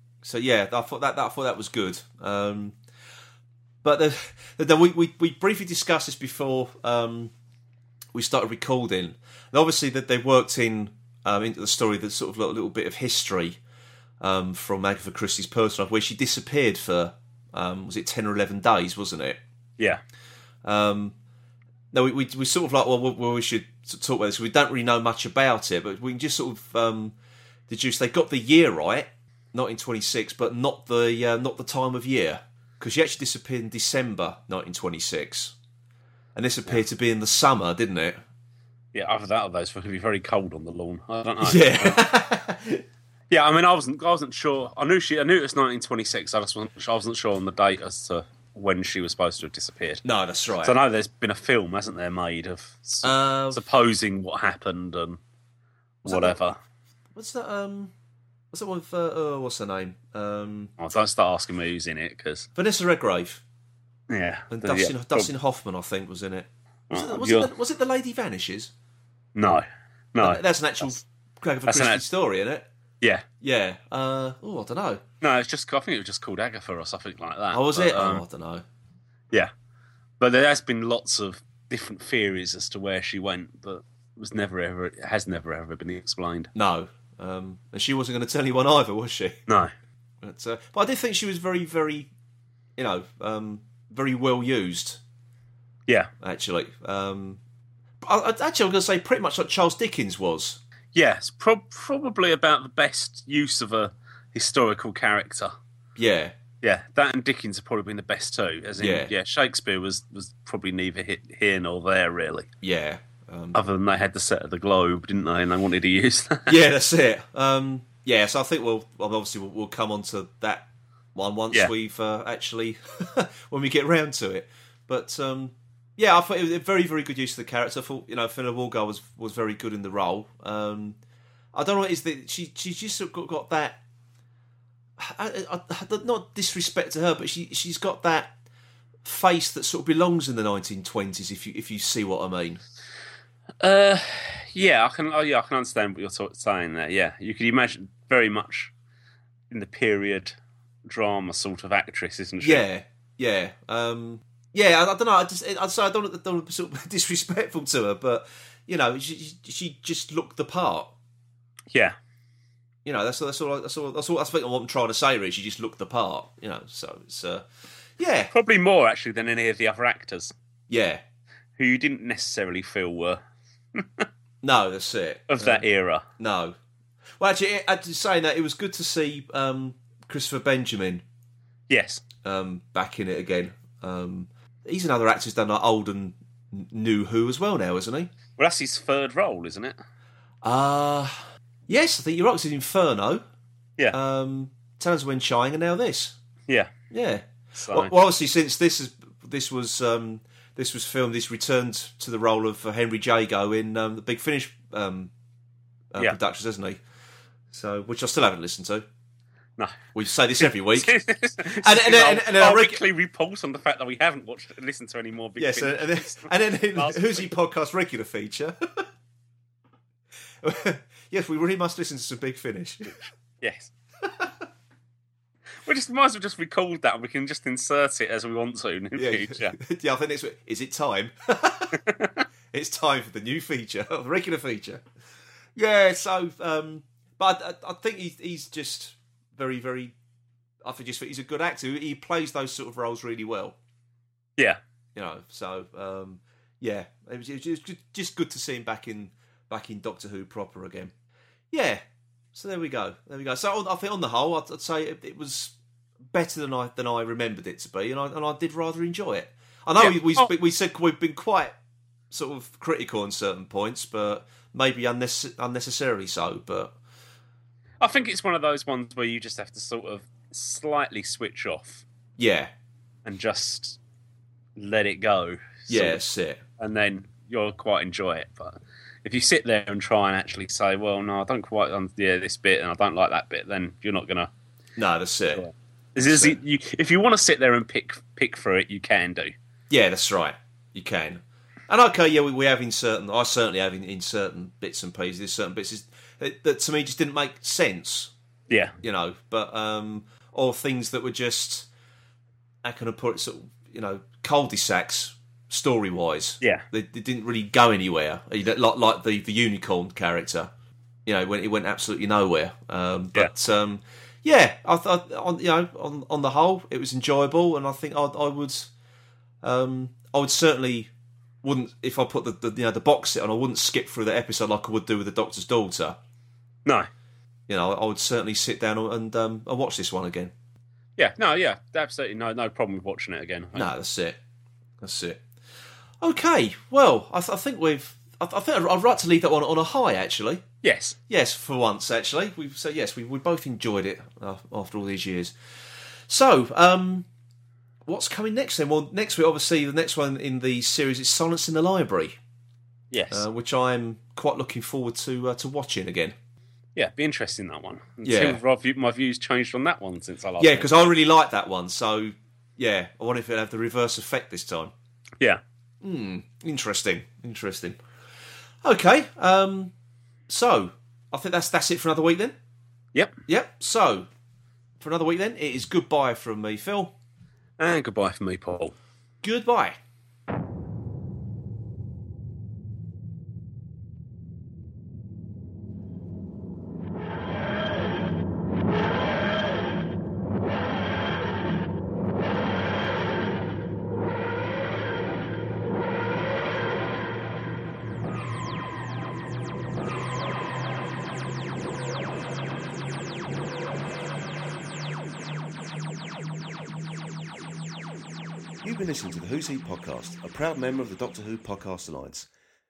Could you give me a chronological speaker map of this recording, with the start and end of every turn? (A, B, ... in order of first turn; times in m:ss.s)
0:00.2-0:02.8 A
0:03.8-0:07.3 A
0:08.1-0:13.6 A
0:14.2-0:19.4 A
0:20.6-0:21.1 A
0:21.9-0:27.1 A
0:27.7-0:35.5 A
0:36.3-0:38.2 A
0:38.9-0:42.0 B
0:41.4-0:42.8 A
0:43.3-0:50.0 B
0:50.0-0:50.8 A
0:50.6-0:55.2 B
0:53.0-0:53.6 A
0:56.0-0:56.6 B
0:56.0-0:56.4 A
0:57.1-0:57.9 A
0:58.5-1:00.7 A
1:00.8-1:02.5 B
1:02.6-1:03.4 A
1:04.1-1:05.3 B
1:04.5-1:08.7 A
1:06.9-1:07.5 B
1:09.3-1:10.4 B
1:10.2-1:12.7 A
1:11.7-1:12.0 B
1:13.4-1:15.0 A
1:15.2-1:18.2 B
1:17.5-1:18.6 A
1:20.2-1:26.5 B
1:26.5-1:29.4 A
1:29.5-1:29.7 B
1:30.2-1:32.1 A
1:32.8-1:35.0 A
1:36.2-1:37.4 A
1:38.0-1:40.6 A
1:40.9-1:45.5 B
1:46.0-1:46.3 A
1:46.6-1:52.5 B
1:48.8-1:49.1 A
1:52.6-1:53.6 A
1:53.5-1:56.5 B
1:56.5-2:11.0 A
2:11.5-2:13.8 A
2:15.0-2:18.3 A
2:19.0-2:22.6 A
2:23.6-2:28.7 B
2:29.5-2:30.3 B
2:30.8-2:32.6 B
2:32.4-2:40.9 A
2:42.8-2:47.4 A
2:48.0-2:48.3 A
2:48.3-2:50.3 B
2:50.7-2:51.0 A
2:51.6-2:53.2 B
2:53.8-2:54.1 B
2:54.4-2:55.6 A
2:55.3-2:56.0 B
2:56.2-2:56.6 A
2:57.2-3:01.0 A
3:01.7-3:02.0 B
3:02.2-3:08.1 A
3:08.4-3:09.8 B
3:10.4-3:13.2 A
3:13.9-3:16.2 A
3:16.9-3:25.1 A
3:17.5-3:17.9 B
3:25.9-3:26.8 A
3:27.5-3:28.8 A
3:29.9-3:32.8 A
3:30.4-3:37.3 B
3:35.4-3:38.8 A
3:40.4-3:43.0 A
3:43.0-3:43.7 B
3:45.6-3:49.6 B
3:48.9-3:51.8 A
3:51.8-3:52.2 B
3:52.5-3:54.8 A
3:55.5-3:59.9 A
4:00.6-4:03.5 A
4:04.9-4:10.9 A
4:11.5-4:11.8 A
4:12.3-4:15.5 A
4:16.1-4:21.5 A
4:19.8-4:20.3 B
4:22.1-4:26.7 A
4:27.8-4:31.8 B
4:32.2-4:32.5 A
4:33.0-4:33.8 B
4:34.6-4:36.0 B
4:35.7-4:36.4 A
4:36.6-4:44.3 B
4:44.8-4:45.4 A
4:45.3-4:49.3 B
4:46.0-4:46.4 A
4:49.7-4:58.1 A
4:58.5-4:58.7 B
4:58.8-5:01.7 A
5:02.6-5:10.5 A
5:11.0-5:18.7 A
5:19.4-5:20.9 A
5:21.4-5:26.0 A
5:27.5-5:30.3 A
5:31.0-5:33.7 B
5:33.5-5:34.2 A
5:34.8-5:35.2 A
5:36.0-5:40.4 A
5:40.6-5:41.0 B
5:41.1-5:45.3 A
5:46.1-5:47.1 A
5:47.9-5:52.2 A
5:52.9-5:53.2 B
5:53.1-5:56.1 A
5:56.8-6:00.8 B
5:58.0-5:58.4 A
6:00.4-6:04.7 A
6:05.8-6:07.8 A
6:08.6-6:09.7 A
6:10.3-6:12.3 A
6:13.3-6:14.1 A
6:14.8-6:16.9 A
6:17.6-6:18.7 B
6:19.2-6:19.8 A
6:48.6-6:52.3 C